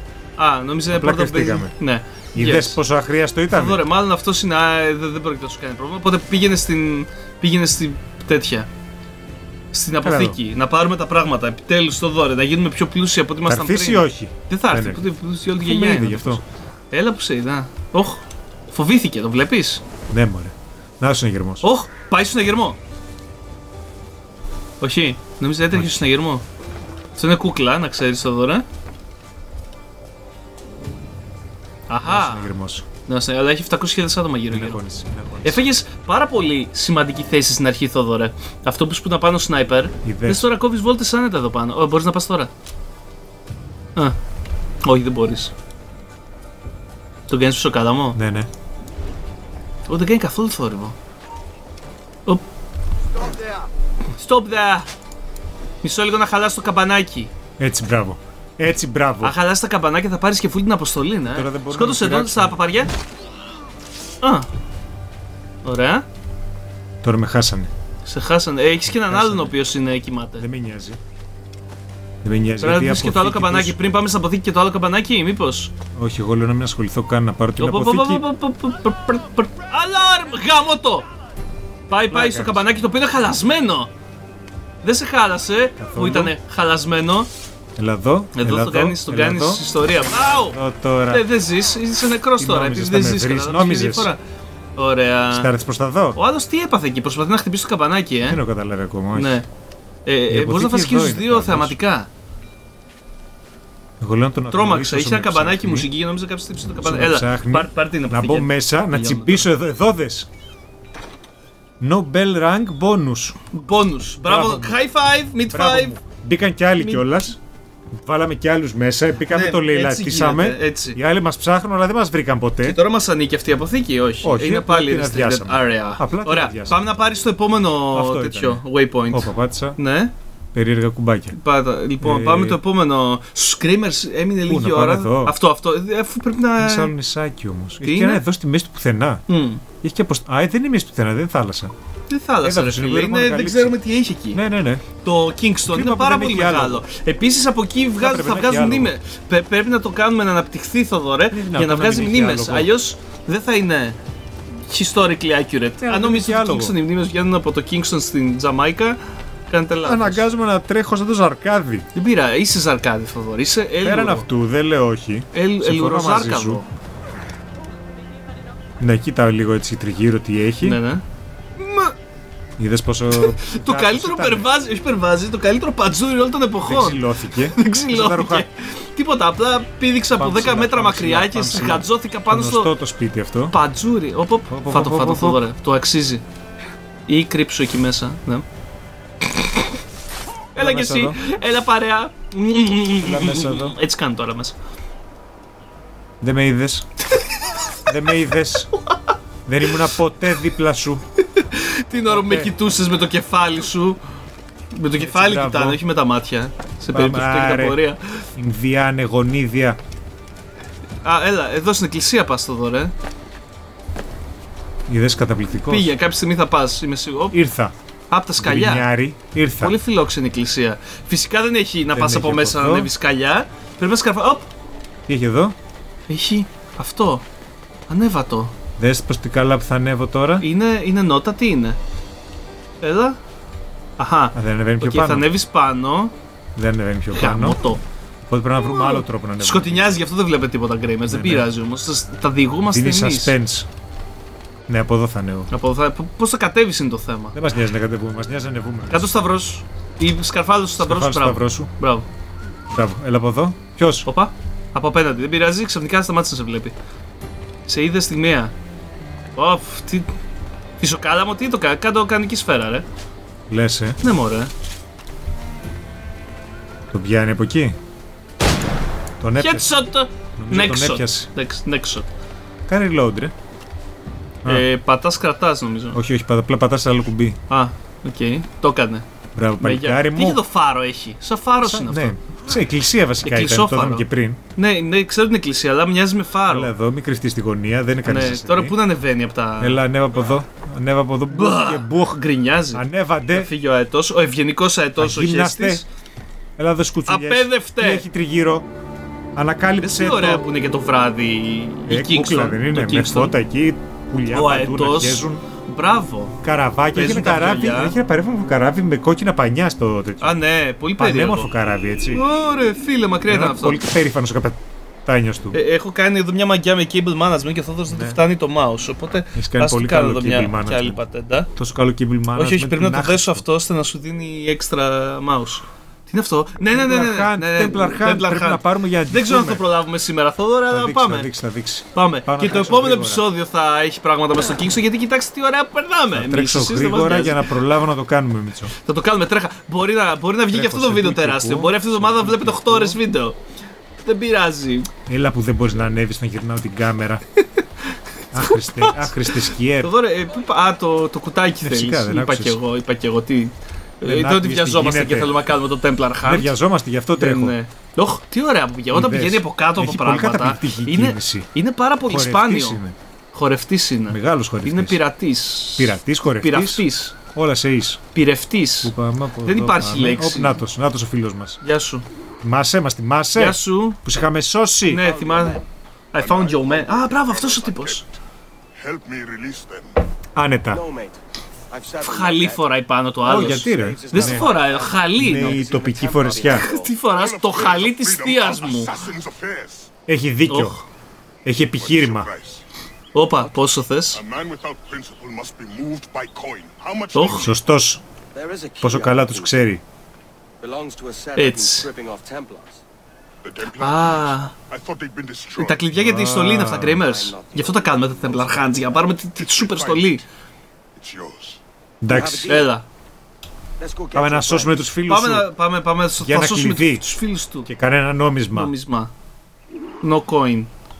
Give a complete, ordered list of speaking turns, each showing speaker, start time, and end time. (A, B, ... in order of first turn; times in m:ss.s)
0:00.4-0:02.8 A
0:00.9-0:01.7 B
0:02.3-0:03.8 B
0:03.5-0:08.7 A
0:09.7-0:19.8 A
0:10.0-0:10.4 B
0:13.5-0:16.4 B
0:20.1-0:21.7 B
0:21.6-0:22.8 A
0:24.8-0:26.4 A
0:25.7-0:26.0 B
0:27.2-0:28.6 A
0:31.9-0:32.5 A
0:32.0-0:32.8 B
0:33.1-0:34.8 A
0:34.5-0:35.6 B
0:35.4-0:42.5 A
0:40.0-0:40.5 B
0:44.8-0:45.5 A
0:47.3-0:48.2 A
0:48.2-0:48.5 B
0:49.9-0:51.0 A
0:54.1-0:54.9 A
0:55.8-0:57.3 A
0:57.6-0:59.4 B
0:59.2-1:02.9 A
1:01.3-1:02.6 B
1:04.2-1:04.5 A
1:05.6-1:06.0 A
1:07.0-1:07.7 B
1:08.1-1:10.4 A
1:09.0-1:09.6 B
1:10.4-1:11.0 B
1:12.2-1:13.8 B
1:12.6-1:15.7 A
1:16.0-1:18.2 B
1:17.6-1:21.1 A
1:21.9-1:23.9 A
1:22.1-1:22.6 B
1:24.8-1:27.3 A
1:25.8-1:26.3 B
1:27.8-1:31.3 B
1:28.3-1:30.6 A
1:31.1-1:34.2 A
1:32.4-1:34.1 B
1:34.8-1:35.5 A
1:35.3-1:36.2 B
1:36.2-1:38.4 A
1:38.3-1:39.4 B
1:39.2-1:39.4 A
1:40.1-1:42.1 A
1:40.3-1:41.8 B
1:44.0-1:45.9 B
1:44.5-1:49.4 A
1:46.8-1:50.3 B
1:51.8-1:53.4 B
1:53.5-1:56.0 A
1:54.2-1:54.8 B
1:55.5-1:57.4 B
1:57.9-2:02.8 B
1:59.3-2:01.0 A
2:02.6-2:10.1 A
2:04.2-2:06.8 B
2:07.9-2:09.8 B
2:10.5-2:11.4 B
2:11.3-2:16.9 A
2:12.0-2:12.6 B
2:14.5-2:15.4 B
2:16.6-2:19.2 B
2:17.8-2:18.2 A
2:19.3-2:19.6 A
2:19.8-2:21.7 B
2:22.1-2:24.4 A
2:22.4-2:23.8 B
2:24.3-2:24.8 B
2:25.0-2:34.0 A
2:25.7-2:26.8 B
2:28.0-2:28.9 B
2:31.3-2:32.7 B
2:34.7-2:40.2 A
2:35.8-2:36.8 B
2:39.8-2:41.9 B
2:42.0-2:44.3 A
2:43.8-2:46.6 B
2:45.3-2:46.7 A
2:48.8-2:50.8 B
2:50.6-2:51.0 A
2:51.6-2:51.9 A
2:52.6-2:54.5 B
2:53.1-3:02.7 A
2:56.7-2:58.5 B
3:00.2-3:03.6 B
3:03.5-3:06.2 A
3:04.5-3:05.4 B
3:07.1-3:08.5 A
3:09.2-3:09.8 A
3:10.6-3:11.2 B
3:10.6-3:14.6 A
3:13.0-3:13.8 B
3:16.2-3:16.9 B
3:17.1-3:17.8 A
3:17.9-3:18.7 B
3:18.7-3:19.1 A
3:19.5-3:21.0 B
3:21.2-3:24.0 A
3:22.1-3:22.5 B
3:24.7-3:28.2 A
3:25.0-3:25.8 B
3:26.9-3:27.8 B
3:28.4-3:29.8 B
3:31.0-3:32.9 A
3:34.9-3:35.9 B
3:35.7-3:37.4 A
3:37.3-3:37.7 B
3:38.1-3:38.9 A
3:38.4-3:39.8 B
3:39.6-3:44.5 A
3:41.9-3:42.9 B
3:45.1-3:45.6 B
3:46.1-3:47.2 A
3:47.9-3:48.5 A
3:48.8-3:50.4 B
3:50.4-3:51.8 A
3:52.8-3:53.2 A
3:54.0-3:56.1 A
3:54.3-3:55.3 B
3:56.6-3:57.6 B
3:57.1-3:57.8 A
3:58.3-4:00.0 B
3:58.8-4:03.4 A
4:01.1-4:01.5 B
4:02.7-4:03.7 B
4:04.7-4:05.5 B
4:05.5-4:07.4 A
4:07.3-4:09.2 B
4:08.9-4:12.1 A
4:10.8-4:11.7 B
4:12.7-4:14.1 B
4:14.1-4:16.7 A
4:17.7-4:18.5 A
4:19.4-4:20.1 A
4:20.8-4:22.8 A
4:23.5-4:24.0 B
4:24.0-4:24.5 A
4:26.9-4:27.8 B
4:29.2-4:29.8 B
4:29.4-4:32.1 A
4:30.4-4:31.3 B
4:32.7-4:33.3 B
4:34.5-4:36.0 A
4:35.9-4:37.4 B
4:37.5-4:39.0 A
4:39.4-4:40.4 B
4:39.6-4:42.2 A
4:41.6-4:44.4 B
4:43.2-4:46.7 A
4:46.5-4:48.8 B
4:48.0-4:49.8 A
4:49.6-4:53.5 B
4:51.3-4:55.8 A
4:55.0-4:55.8 B
4:56.6-4:58.7 B
4:57.1-4:58.1 A
4:59.4-5:00.4 B
4:59.8-5:03.4 A
5:01.9-5:05.4 B
5:04.3-5:06.4 A
5:06.4-5:10.4 B
5:06.9-5:08.0 A
5:10.2-5:11.5 A
5:11.0-5:12.2 B
5:12.1-5:13.8 A
5:13.3-5:15.6 B
5:15.5-5:21.5 A
5:17.9-5:18.2 B
5:19.4-5:21.0 B
5:21.6-5:23.4 B
5:22.4-5:31.3 A
5:26.7-5:29.6 B
5:30.7-5:33.3 B
5:31.9-5:37.5 A
5:36.1-5:38.7 B
5:38.8-5:43.4 A
5:40.5-5:43.0 B
5:44.0-5:44.9 A
5:45.1-5:47.2 B
5:47.4-5:56.5 A
5:48.3-5:49.9 B
5:51.6-5:52.6 B
5:54.0-5:55.3 B
5:56.2-5:57.6 B
5:57.2-6:02.8 A
5:58.9-6:01.5 B
6:02.1-6:03.0 B
6:03.3-6:07.2 A
6:04.1-6:05.0 B
6:05.8-6:08.0 B
6:08.1-6:08.9 A
6:08.8-6:11.6 B
6:09.4-6:10.5 A
6:11.6-6:12.0 A
6:12.4-6:15.0 B
6:13.4-6:14.0 A
6:14.9-6:15.6 A
6:15.0-6:15.6 C
6:16.1-6:18.0 A
6:16.2-6:18.1 D
6:18.8-6:20.0 D
6:20.4-6:20.8 B
6:20.7-6:22.7 C
6:22.0-6:25.6 A
6:23.2-6:24.5 B
6:23.2-6:26.9 C
6:25.2-6:26.7 B
6:26.5-6:29.0 A
6:27.0-6:29.9 D
6:30.1-6:30.8 B
6:30.5-6:30.8 A
6:31.4-6:32.3 B
6:31.8-6:32.6 D
6:33.1-6:34.2 A
6:34.1-6:37.5 D
6:37.1-6:37.5 A
6:37.4-6:38.0 B
6:38.4-6:39.6 C
6:38.8-6:39.8 B
6:40.6-6:42.8 C
6:41.4-6:41.9 A
6:43.4-6:45.9 D
6:43.8-6:44.5 A
6:45.6-6:50.2 A
6:45.9-6:47.0 B
6:46.9-6:48.9 C
6:49.4-6:50.2 D
6:51.0-6:51.6 D
6:52.0-6:52.6 B
6:52.1-6:52.7 C
6:52.5-6:52.8 A
6:53.8-6:54.8 C
6:54.1-6:55.5 B
6:55.1-6:57.7 A
6:56.2-6:57.0 B
6:57.6-6:58.7 B
6:58.5-6:59.1 A
7:00.0-7:00.7 A